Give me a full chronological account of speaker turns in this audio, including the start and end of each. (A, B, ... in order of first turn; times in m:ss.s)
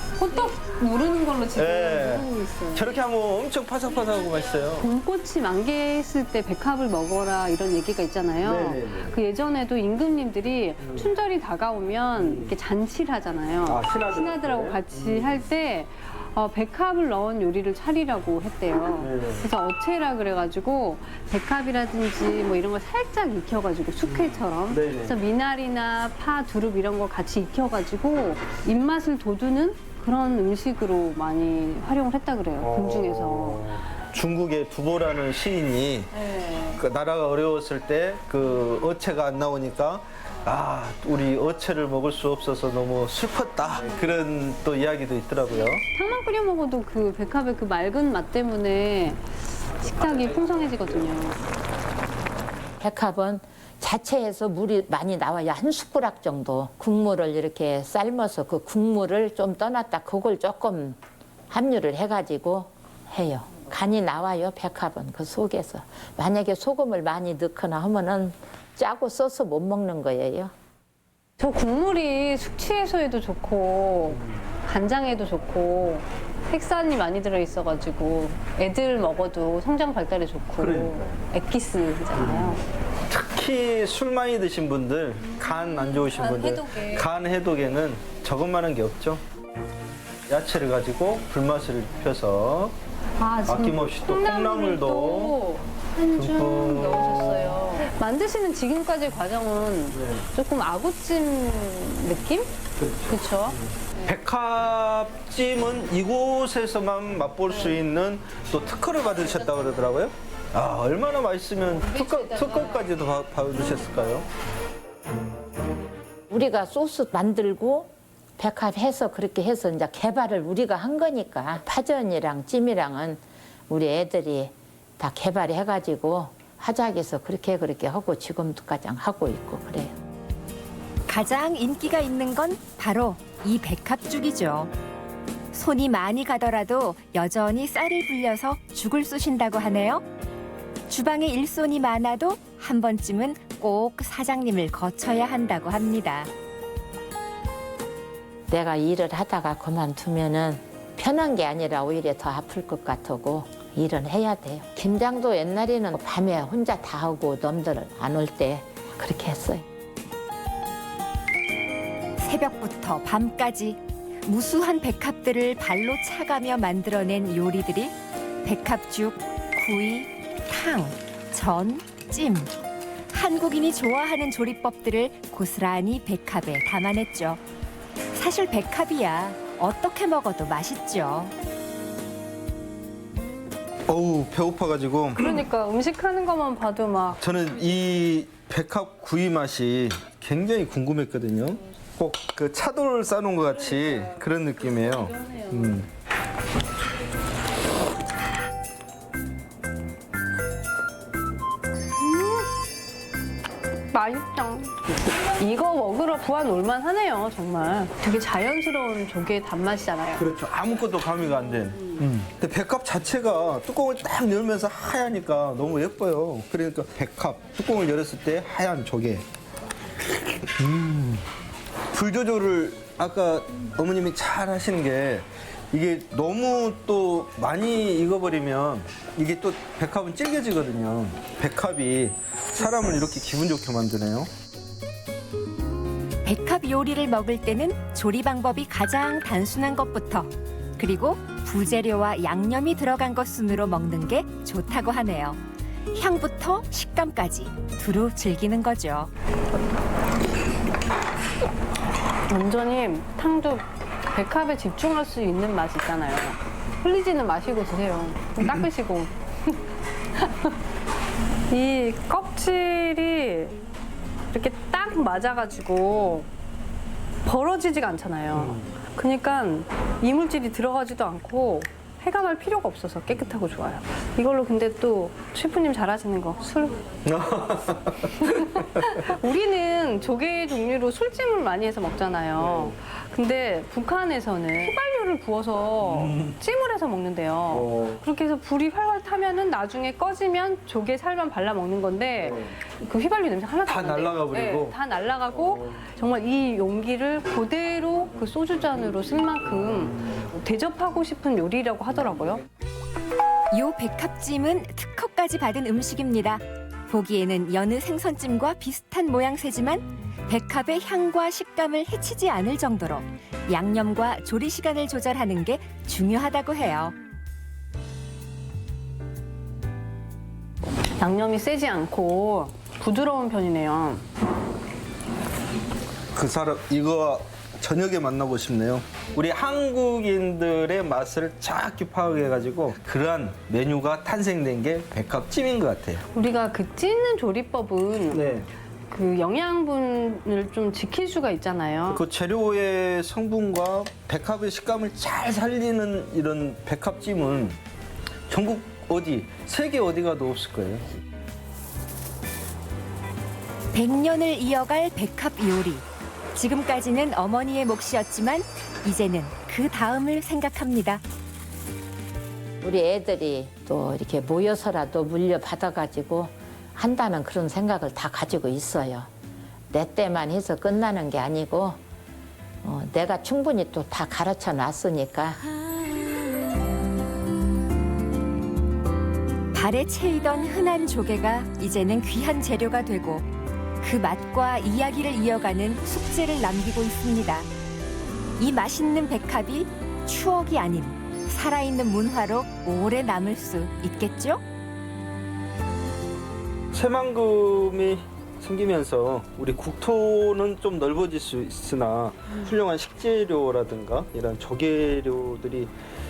0:00.2-0:03.0 A
0:01.5-0:04.9 B
0:04.8-0:33.8 A
0:08.4-0:09.1 B
0:10.8-0:11.1 B
0:12.2-0:12.5 B
0:13.6-0:15.4 B
0:19.0-0:19.5 B
0:24.1-0:25.2 B
0:32.6-0:36.2 B
0:36.1-0:36.8 A
0:36.7-0:45.8 B
0:45.9-0:51.4 A
0:52.8-1:01.0 C
1:01.5-1:10.5 C
1:11.4-1:22.6 A
1:20.6-1:21.2 B
1:22.1-1:22.6 B
1:23.1-1:29.2 B
1:25.4-1:27.1 A
1:30.3-1:32.7 B
1:33.2-1:44.2 A
1:33.5-1:35.4 B
1:36.1-1:37.5 B
1:40.0-1:40.3 B
1:42.8-1:43.2 B
1:44.0-1:54.2 B
1:49.2-1:49.7 A
1:51.8-1:52.9 A
1:53.6-1:53.9 A
1:56.3-2:10.0 C
2:11.1-2:14.7 D
2:15.5-2:20.0 D
2:20.9-2:26.3 D
2:28.5-2:39.6 C
2:42.2-2:47.9 D
2:48.4-2:52.5 D
2:53.1-2:57.4 D
2:58.1-3:01.3 D
3:03.9-3:05.4 B
3:05.2-3:07.2 A
3:07.2-3:15.9 B
3:14.1-3:15.5 A
3:21.9-3:22.5 A
3:23.9-3:30.3 A
3:30.2-3:39.2 B
3:40.1-3:41.2 B
3:41.9-3:54.3 B
3:56.2-4:05.4 D
4:05.9-4:09.1 D
4:12.3-4:19.6 A
4:20.2-4:20.5 A
4:21.5-4:23.6 A
4:24.3-4:26.3 A
4:27.2-4:36.8 A
4:37.0-4:38.9 B
4:38.2-5:02.4 A
4:45.8-4:46.3 B
4:47.5-4:47.9 B
4:53.6-4:54.8 B
5:03.5-5:16.9 D
5:21.0-5:24.0 A
5:26.1-5:36.0 B
5:36.1-5:38.3 A
5:38.1-5:38.5 B
5:38.9-5:42.0 A
5:41.9-5:47.6 B
5:48.3-5:50.9 B
5:53.7-6:01.0 D
6:02.6-6:09.1 C
6:09.7-6:11.8 C
6:12.6-6:15.4 C
6:19.5-6:23.2 D
6:23.8-6:27.5 D
6:28.4-6:34.4 D
6:36.7-6:45.7 B